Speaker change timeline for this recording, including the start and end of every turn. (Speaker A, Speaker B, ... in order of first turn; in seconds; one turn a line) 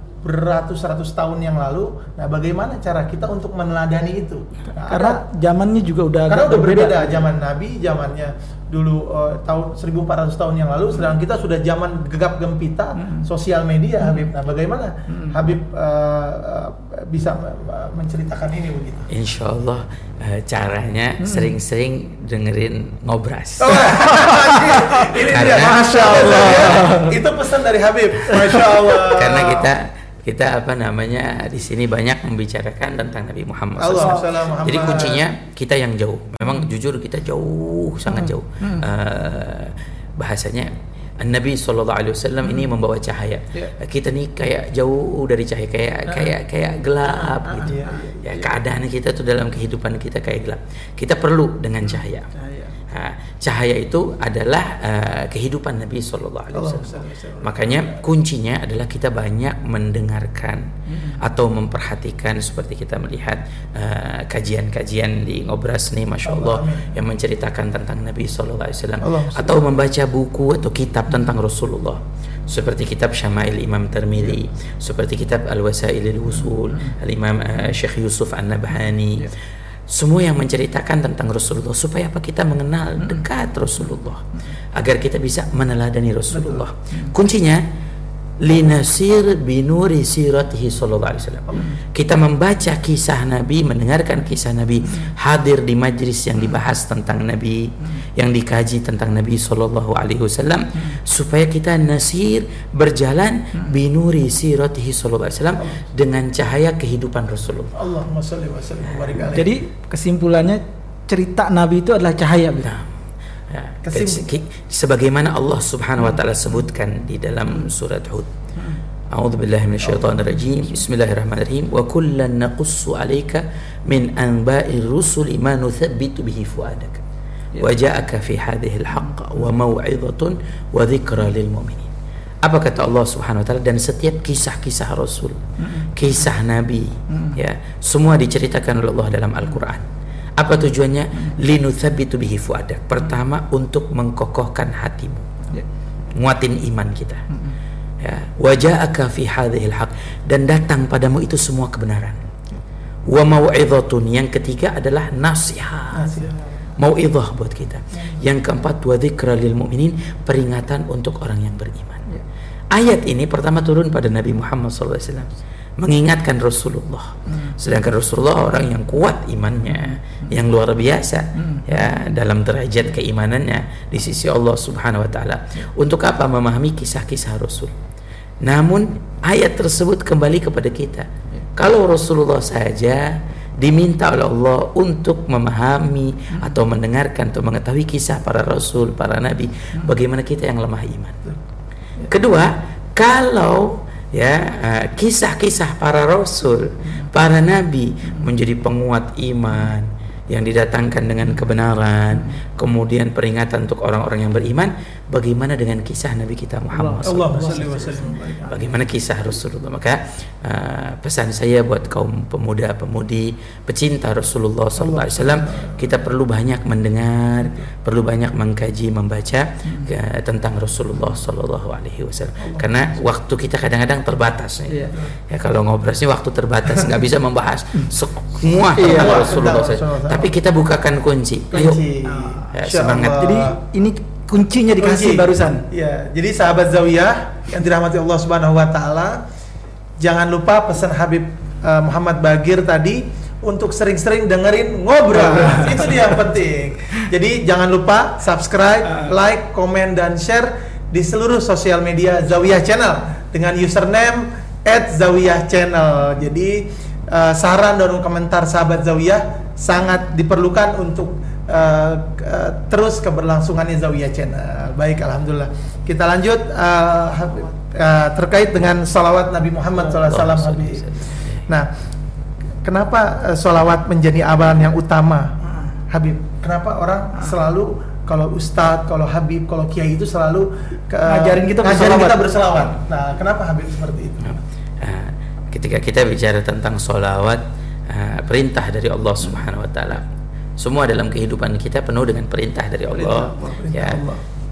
Speaker A: 0.2-5.2
Speaker B: 4.8-7.3
Speaker A: 6.3-19.1
Speaker B: 13.0-13.2
Speaker C: 19.1-24.0
Speaker B: 21.2-21.5
Speaker A: 23.6-29.7
Speaker B: 24.2-27.2
Speaker C: 25.2-27.0
Speaker B: 28.2-28.9
Speaker C: 29.1-52.3
Speaker A: 33.8-35.3
Speaker B: 34.0-34.7
Speaker B: 38.1-38.8
Speaker B: 47.2-48.0
Speaker A: 47.6-48.5
Speaker B: 52.3-52.7
Speaker C: 52.9-79.3
Speaker A: 56.5-57.9
Speaker A: 66.2-66.9
Speaker A: 69.0-69.6
Speaker C: 79.9-87.6
Speaker A: 86.3-86.7
Speaker C: 88.4-107.7
Speaker A: 107.8-109.5
Speaker B: 109.3-112.7
Speaker C: 112.6-118.3
Speaker A: 113.8-114.3
Speaker C: 119.1-127.0
Speaker A: 119.8-120.2
Speaker C: 127.6-131.9
Speaker C: 132.4-145.3
Speaker C: 146.2-147.2
Speaker C: 148.0-152.2
Speaker C: 153.1-162.1
Speaker A: 155.9-156.3
Speaker C: 162.7-177.8
Speaker C: 178.4-191.3
Speaker C: 192.1-207.9
Speaker B: 206.7-208.4
Speaker A: 207.0-208.7
Speaker C: 208.4-231.8
Speaker A: 214.8-215.9
Speaker A: 222.4-222.7
Speaker B: 224.7-224.9
Speaker B: 228.8-229.3
Speaker A: 228.8-230.3
Speaker A: 231.5-233.6
Speaker B: 232.1-232.5
Speaker C: 232.5-233.3
Speaker B: 233.2-235.6
Speaker A: 234.8-239.2
Speaker A: 240.0-270.8
Speaker B: 245.1-245.9
Speaker C: 269.8-271.4
Speaker A: 272.6-275.4
Speaker B: 275.4-275.8
Speaker A: 275.9-284.4
Speaker B: 281.1-282.3
Speaker C: 284.2-294.0
Speaker A: 292.9-294.2